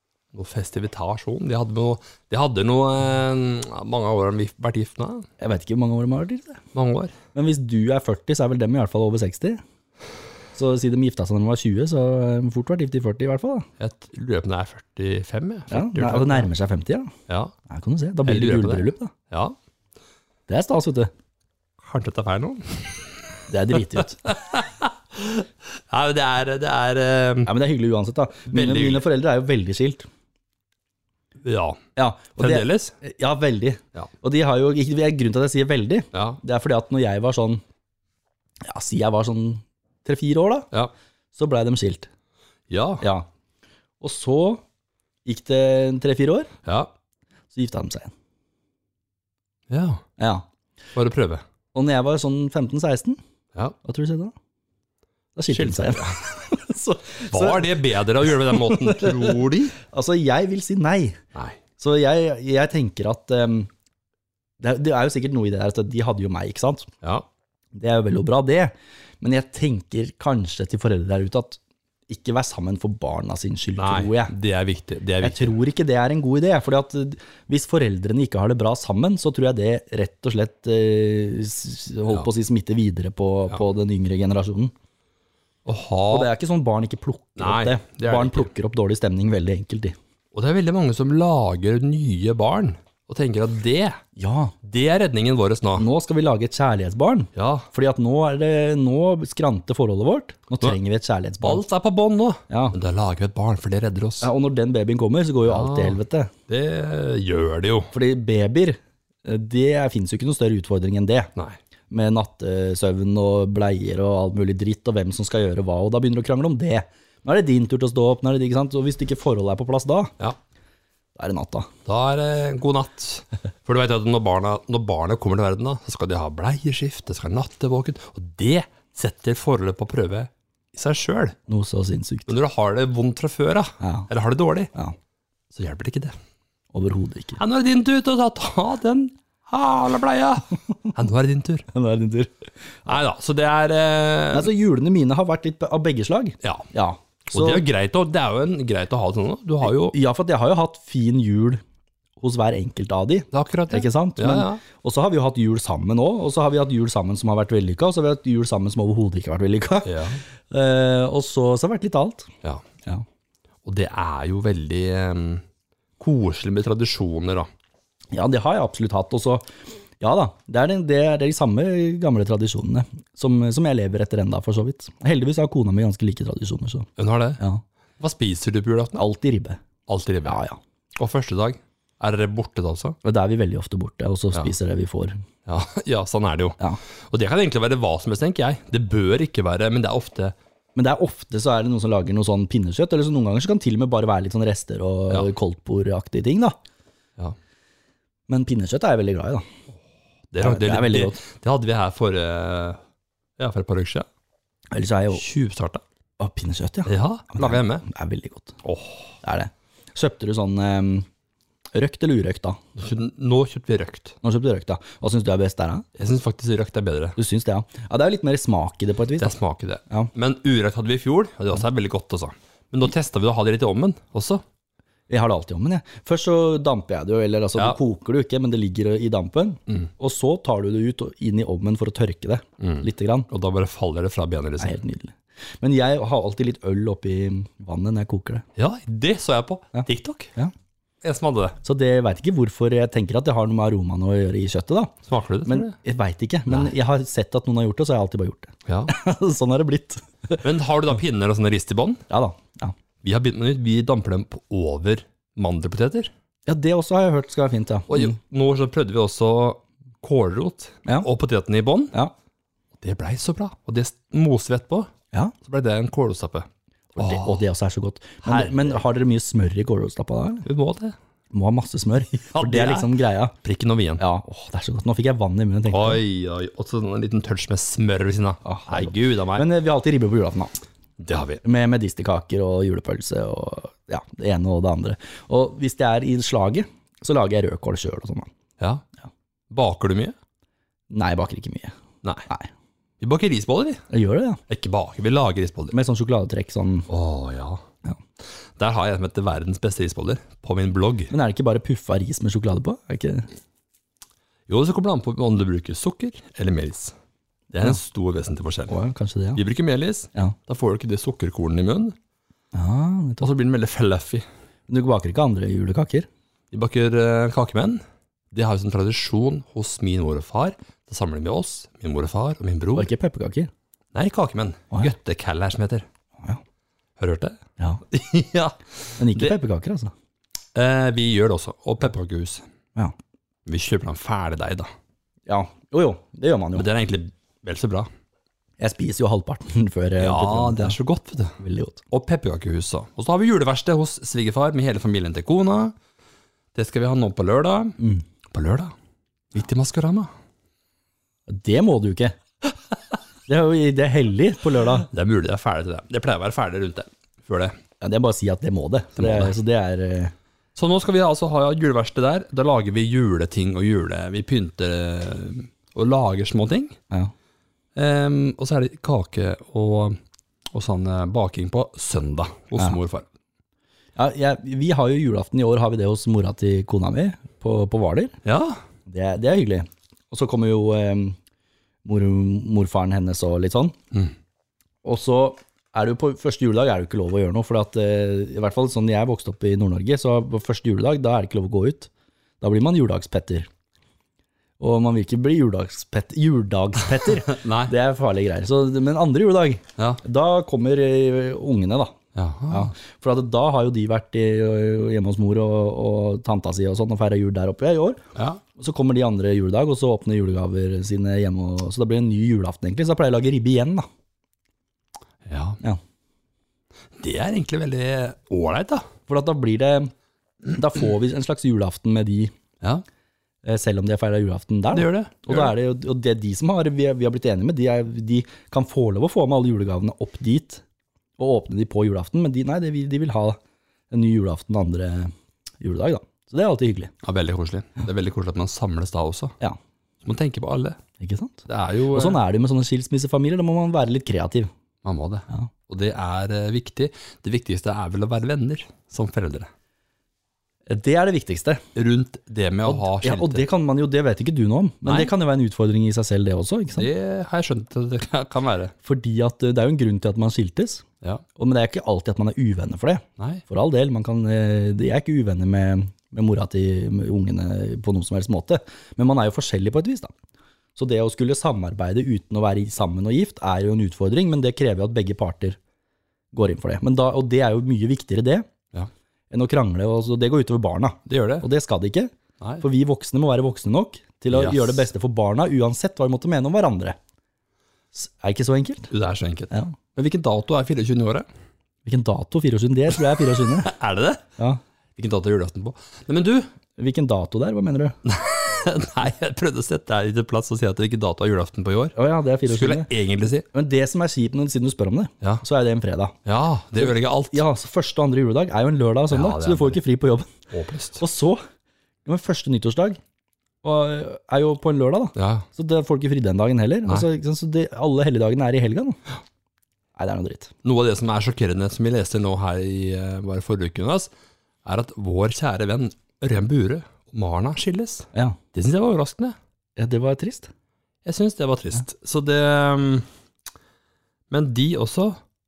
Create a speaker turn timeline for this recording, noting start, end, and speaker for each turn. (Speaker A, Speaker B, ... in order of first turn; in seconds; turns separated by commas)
Speaker A: 0.3-5.3, Speaker B: 5.4-6.6, Speaker A: 6.7-7.1, Speaker B: 7.3-9.6, Speaker B: 10.5-13.7, Speaker A: 13.8-16.5, Speaker B: 15.7-17.1, Speaker A: 17.3-17.5, Speaker B: 17.7-19.1, Speaker A: 18.2-19.6, Speaker B: 20.5-21.1, Speaker A: 21.8-27.5, Speaker B: 23.5-24.2, Speaker B: 27.4-30.1, Speaker A: 28.5-29.0, Speaker A: 31.4-31.8, Speaker B: 31.9-37.6, Speaker A: 32.4-32.9, Speaker A: 36.1-36.4, Speaker B: 38.6-40.7, Speaker B: 41.3-42.1, Speaker A: 42.7-43.0, Speaker B: 43.0-43.3, Speaker B: 44.0-44.6, Speaker B: 45.2-46.5, Speaker A: 46.6-46.9, Speaker B: 47.5-48.1, Speaker A: 49.7-50.0, Speaker B: 50.2-50.4, Speaker A: 50.9-51.4, Speaker B: 51.7-53.2, Speaker B: 53.8-54.3, Speaker B: 55.4-61.2, Speaker A: 55.5-56.2, Speaker A: 57.3-59.8, Speaker A: 61.3-61.6, Speaker B: 61.8-63.7, Speaker B: 64.6-66.9, Speaker B: 67.7-74.3, Speaker A: 73.8-75.5, Speaker B: 75.2-84.7, Speaker A: 85.7-86.3, Speaker B: 86.1-90.0, Speaker A: 87.4-88.5, Speaker A: 90.3-94.0, Speaker B: 94.2-94.5, Speaker A: 94.6-95.9, Speaker B: 95.8-101.6, Speaker A: 97.3-97.7, Speaker A: 101.4-104.3, Speaker B: 102.5-102.8, Speaker B: 104.2-106.3, Speaker A: 105.4-107.9, Speaker B: 107.9-111.3, Speaker B: 111.9-120.1, Speaker B: 121.2-121.7, Speaker A: 121.8-131.4, Speaker B: 131.5-132.3, Speaker A: 132.3-134.7, Speaker B: 133.8-134.1, Speaker A: 135.5-136.2, Speaker B: 136.7-137.4, Speaker A: 137.4-141.7, Speaker B: 141.7-142.3, Speaker A: 142.8-144.5, Speaker B: 144.3-147.6, Speaker A: 147.3-149.9, Speaker B: 149.6-151.6, Speaker B: 152.2-162.3, Speaker A: 153.3-154.6, Speaker A: 159.8-160.2, Speaker A: 163.6-165.4, Speaker A: 166.0-167.5, Speaker B: 168.1-169.5, Speaker B: 170.0-177.6, Speaker A: 177.0-177.4, Speaker A: 178.0-179.0, Speaker B: 178.9-179.6, Speaker A: 179.9-180.4, Speaker B: 180.2-180.6, Speaker A: 180.9-183.0, Speaker B: 183.0-185.2, Speaker A: 185.4-190.3, Speaker B: 190.8-196.6, Speaker B: 198.3-199.4, Speaker A: 200.3-202.8, Speaker B: 200.4-201.2, Speaker A: 203.4-204.1, Speaker B: 204.7-205.2, Speaker A: 205.1-205.8, Speaker B: 206.2-208.6, Speaker A: 206.8-207.8, Speaker A: 208.6-209.1, Speaker B: 209.2-211.1, Speaker B: 211.7-212.6, Speaker A: 212.8-214.2, Speaker B: 214.2-215.8, Speaker A: 215.9-217.2, Speaker B: 217.2-219.3, Speaker A: 219.2-224.4, Speaker B: 225.1-233.3, Speaker A: 232.6-234.8, Speaker B: 234.6-238.4, Speaker A: 238.6-240.3, Speaker B: 239.7-240.5, Speaker A: 241.0-241.6, Speaker B: 241.6-250.4, Speaker A: 245.1-245.8, Speaker A: 248.7-248.9, Speaker A: 250.4-252.0, Speaker B: 252.1-252.7, Speaker A: 253.0-256.1, Speaker B: 256.5-258.2, Speaker A: 257.9-261.9, Speaker A: 262.8-264.9, Speaker A: 265.4-267.4, Speaker B: 266.9-270.4, Speaker A: 268.2-268.8, Speaker A: 270.4-270.9, Speaker B: 271.3-273.3, Speaker A: 272.2-274.0, Speaker B: 274.0-276.0, Speaker A: 275.7-279.4, Speaker B: 278.4-280.5, Speaker A: 281.0-281.4, Speaker B: 281.4-288.3, Speaker A: 288.6-288.8, Speaker A: 289.5-290.1, Speaker B: 290.9-291.7, Speaker A: 292.0-292.3, Speaker A: 293.0-293.8, Speaker B: 293.9-294.4, Speaker A: 294.5-295.7, Speaker B: 295.7-296.9, Speaker A: 296.9-297.6, Speaker A: 298.6-301.1, Speaker B: 301.1-303.3, Speaker A: 304.5-306.9, Speaker A: 307.5-308.8, Speaker B: 308.7-309.4, Speaker A: 309.3-311.9, Speaker B: 312.5-313.3, Speaker A: 313.2-314.2, Speaker B: 314.7-316.1, Speaker A: 316.5-322.9, Speaker B: 322.7-323.5, Speaker A: 323.9-325.9, Speaker A: 327.0-327.4, Speaker A: 327.9-329.4, Speaker B: 329.0-329.9, Speaker A: 330.5-332.4, Speaker A: 333.4-334.7, Speaker B: 335.3-336.7, Speaker A: 336.5-337.9, Speaker B: 338.6-340.8, Speaker A: 340.0-341.4, Speaker B: 341.4-341.8, Speaker A: 341.9-345.7, Speaker A: 346.5-347.8, Speaker B: 347.8-348.0, Speaker A: 348.3-348.7, Speaker A: 349.3-350.1, Speaker B: 351.3-352.1, Speaker B: 353.3-354.9, Speaker A: 354.8-357.6, Speaker B: 357.8-360.1, Speaker A: 359.0-359.3, Speaker A: 360.5-366.8, Speaker A: 367.7-369.9, Speaker A: 370.5-373.1, Speaker B: 373.9-378.1, Speaker A: 378.2-378.6, Speaker B: 378.9-381.1, Speaker B: 381.8-383.8, Speaker B: 384.8-391.9, Speaker B: 392.4-393.5, Speaker B: 394.6-402.0, Speaker A: 397.1-397.7, Speaker A: 402.1-402.7, Speaker B: 402.5-408.0, Speaker A: 408.1-408.4, Speaker B: 408.6-413.9, Speaker A: 415.2-415.6, Speaker A: 417.0-418.9, Speaker B: 419.1-419.9, Speaker B: 420.5-422.3, Speaker B: 423.4-430.6, Speaker A: 424.7-425.5, Speaker B: 431.2-433.4, Speaker B: 433.9-436.9, Speaker A: 437.0-439.3, Speaker A: 440.0-440.8, Speaker B: 441.0-444.5, Speaker A: 441.5-442.2, Speaker A: 444.8-449.5, Speaker B: 450.7-451.6, Speaker A: 451.7-453.5, Speaker B: 452.6-456.9, Speaker A: 454.9-455.1, Speaker A: 456.8-458.7, Speaker B: 458.8-460.8, Speaker B: 461.4-470.1, Speaker A: 463.2-463.4, Speaker B: 470.8-475.6, Speaker B: 476.3-478.4, Speaker B: 479.3-486.9, Speaker A: 481.1-481.4, Speaker A: 484.3-484.8, Speaker B: 487.9-488.9, Speaker A: 488.9-491.2, Speaker B: 489.5-489.8, Speaker B: 491.8-493.7, Speaker A: 493.4-494.2, Speaker A: 494.9-496.5, Speaker B: 496.8-497.9, Speaker A: 498.0-501.9, Speaker B: 501.9-502.9, Speaker A: 502.4-503.5, Speaker B: 503.5-506.1, Speaker A: 506.2-507.4, Speaker B: 506.8-510.3, Speaker A: 509.1-509.8, Speaker A: 510.5-511.0, Speaker B: 511.0-511.4, Speaker B: 512.0-513.0, Speaker B: 513.6-519.0, Speaker A: 515.1-515.5, Speaker B: 520.0-520.5, Speaker A: 520.6-524.1, Speaker A: 524.6-529.4, Speaker B: 529.8-530.5, Speaker A: 531.0-533.0, Speaker A: 534.3-535.2